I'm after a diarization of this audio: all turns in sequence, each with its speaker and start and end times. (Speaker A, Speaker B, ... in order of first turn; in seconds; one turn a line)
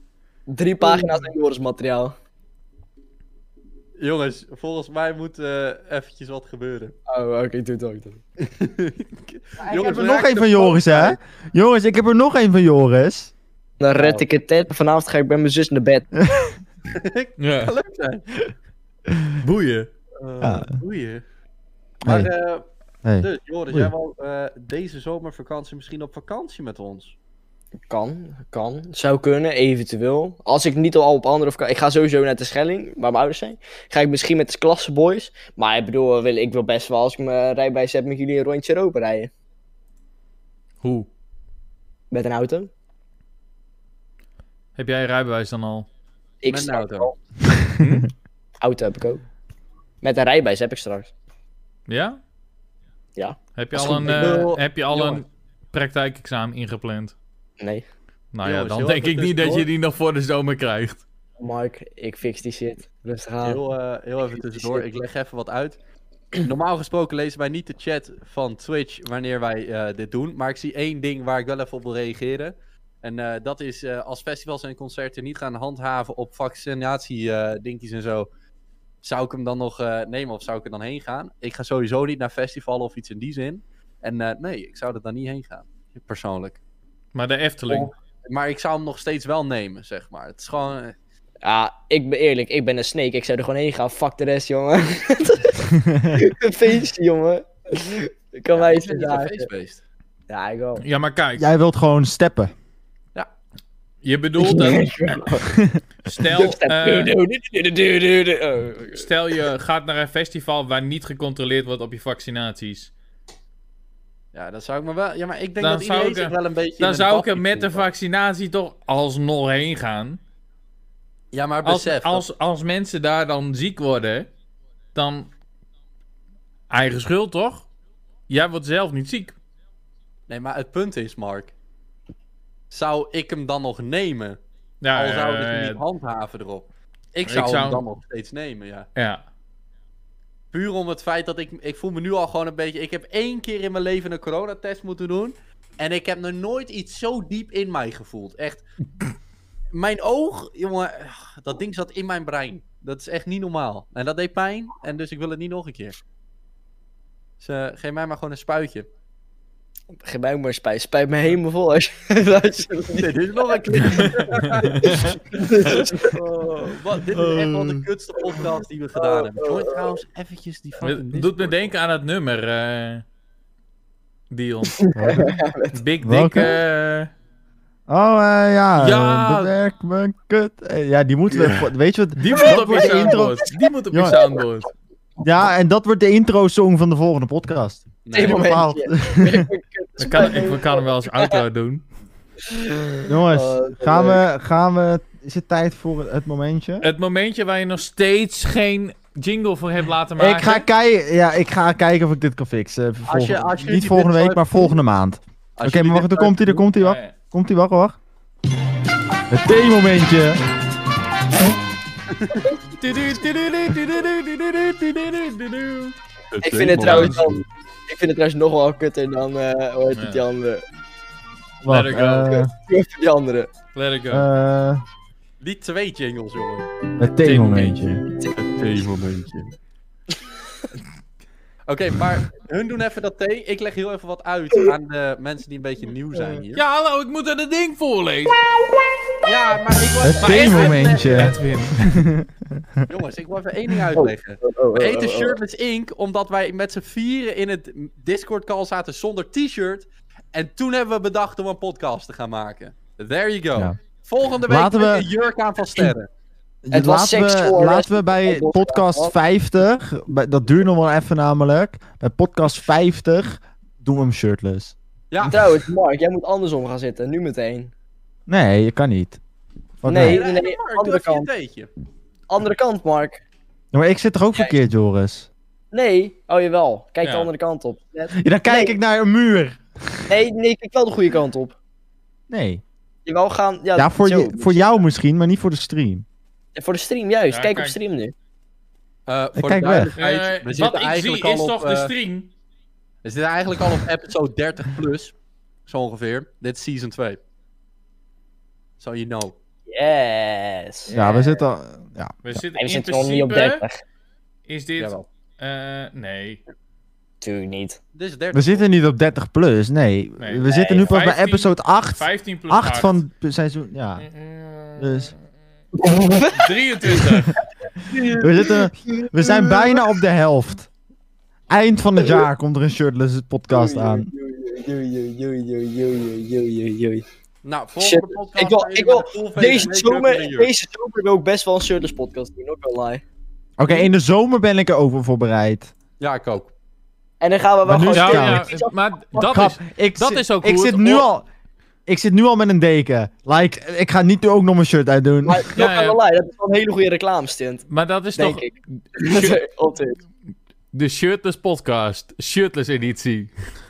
Speaker A: 0.5-2.1
Speaker B: 0.8-1.1
Speaker B: 4.0-7.0
Speaker A: 7.1-8.2
Speaker B: 8.4-11.2
Speaker C: 9.6-13.3
Speaker A: 13.8-16.1
Speaker B: 13.9-14.2
Speaker C: 16.2-16.5
Speaker B: 16.9-18.2
Speaker D: 17.4-17.7
Speaker C: 19.1-19.4
Speaker B: 19.4-21.2
Speaker C: 20.4-20.7
Speaker B: 22.0-22.6
Speaker C: 22.0-22.3
Speaker C: 23.0-23.9
Speaker B: 23.2-27.1
Speaker A: 27.9-39.3
Speaker D: 40.8-41.1
Speaker A: 42.1-42.7
Speaker D: 44.8-45.9
Speaker A: 46.4-47.1
Speaker B: 46.5-47.1
Speaker D: 47.8-48.1
Speaker A: 48.6-49.2
Speaker A: 50.0-51.1
Speaker D: 51.9-52.2
Speaker D: 53.5-57.1
Speaker B: 53.7-55.2
Speaker A: 57.6-57.9
Speaker D: 58.3-61.0
Speaker B: 58.4-59.7
Speaker A: 61.4-63.6
Speaker B: 63.4-65.8
Speaker A: 64.3-64.8
Speaker B: 66.4-78.3
Speaker B: 79.0-86.6
Speaker D: 87.1-87.9
Speaker B: 87.7-91.0
Speaker A: 91.4-99.5
Speaker C: 95.8-96.2
Speaker B: 98.5-99.8
Speaker A: 100.3-100.8
Speaker D: 100.8-101.5
Speaker C: 101.4-102.5
Speaker D: 104.0-105.2
Speaker A: 104.4-105.5
Speaker D: 106.0-107.1
Speaker A: 106.3-109.1
Speaker D: 109.0-112.9
Speaker B: 114.3-117.9
Speaker D: 115.6-120.2
Speaker B: 121.3-122.2
Speaker D: 121.6-124.3
Speaker D: 124.9-125.3
Speaker D: 126.7-127.7
Speaker D: 128.3-129.3
Speaker B: 130.3-131.5
Speaker B: 132.7-134.4
Speaker D: 134.8-135.8
Speaker B: 134.9-138.9
Speaker D: 137.2-137.8
Speaker D: 138.9-139.2
Speaker B: 140.5-148.6
Speaker B: 149.7-156.0
Speaker B: 157.4-158.9
Speaker A: 160.0-164.1
Speaker B: 162.9-171.7
Speaker D: 163.9-164.9
Speaker A: 164.6-166.8
Speaker C: 167.2-167.8
Speaker A: 168.9-170.0
Speaker D: 170.8-173.0
Speaker D: 174.3-177.1
Speaker A: 174.8-175.8
Speaker C: 174.9-175.4
Speaker C: 176.0-176.5
Speaker C: 177.9-184.2
Speaker D: 178.8-179.5
Speaker B: 181.3-181.6
Speaker D: 182.2-184.7
Speaker A: 182.7-183.2
Speaker C: 185.2-189.5
Speaker B: 188.1-188.5
Speaker A: 188.1-191.4
Speaker D: 190.0-191.8
Speaker A: 192.5-194.2
Speaker C: 193.1-196.9
Speaker D: 196.8-200.7
Speaker C: 200.2-208.0
Speaker B: 203.1-204.7
Speaker B: 205.6-206.7
Speaker D: 206.8-207.1
Speaker C: 209.3-210.4
Speaker B: 212.1-212.6
Speaker D: 212.8-215.9
Speaker B: 216.3-217.2
Speaker A: 216.4-220.6
Speaker D: 216.8-217.2
Speaker D: 219.9-220.2
Speaker C: 221.6-222.5
Speaker D: 221.7-222.5
Speaker A: 222.3-223.5
Speaker D: 223.7-224.2
Speaker C: 224.1-224.8
Speaker B: 225.4-226.7
Speaker C: 227.0-228.0
Speaker D: 227.2-228.0
Speaker B: 228.4-229.5
Speaker B: 231.7-236.6
Speaker D: 236.5-238.4
Speaker B: 239.2-241.4
Speaker C: 240.0-242.9
Speaker D: 240.2-241.9
Speaker B: 242.9-256.1
Speaker A: 243.9-245.4
Speaker C: 254.4-255.1
Speaker C: 256.6-265.3
Speaker A: 256.7-259.1
Speaker B: 265.1-265.4
Speaker A: 265.2-267.7
Speaker C: 268.3-269.2
Speaker C: 269.8-270.2
Speaker A: 269.8-271.3
Speaker B: 269.9-271.7
Speaker A: 272.3-273.2
Speaker C: 273.7-275.3
Speaker A: 275.7-278.8
Speaker D: 277.0-277.3
Speaker C: 278.1-280.1
Speaker A: 280.1-281.6
Speaker C: 282.3-282.6
Speaker A: 283.0-284.8
Speaker C: 283.7-286.0
Speaker A: 286.5-288.1
Speaker D: 287.3-287.7
Speaker B: 289.1-291.9
Speaker C: 289.4-289.9
Speaker D: 290.0-292.3
Speaker B: 293.0-295.1
Speaker B: 295.6-297.2
Speaker B: 298.8-299.4
Speaker A: 299.7-300.9
Speaker D: 300.9-301.4
Speaker C: 300.9-302.4
Speaker D: 302.2-303.6
Speaker A: 302.6-303.8
Speaker D: 304.5-306.4
Speaker B: 304.8-305.0
Speaker A: 307.2-307.8
Speaker B: 307.9-308.7
Speaker C: 308.3-314.1
Speaker D: 310.2-313.0
Speaker A: 310.5-310.9
Speaker D: 314.0-315.2
Speaker C: 314.8-315.1
Speaker A: 315.7-317.1
Speaker D: 316.3-317.4
Speaker A: 317.7-320.0
Speaker C: 318.2-320.7
Speaker C: 321.5-324.1
Speaker A: 322.0-322.2
Speaker A: 323.5-327.0
Speaker B: 327.4-330.5
Speaker A: 327.8-333.0
Speaker C: 333.6-335.7
Speaker B: 333.6-333.9
Speaker B: 336.0-336.5
Speaker A: 337.2-339.3
Speaker C: 337.6-338.4
Speaker D: 337.9-341.1
Speaker C: 339.2-341.2
Speaker C: 341.9-345.5
Speaker A: 345.2-350.0
Speaker D: 345.5-346.0
Speaker D: 347.7-349.4
Speaker D: 350.7-353.3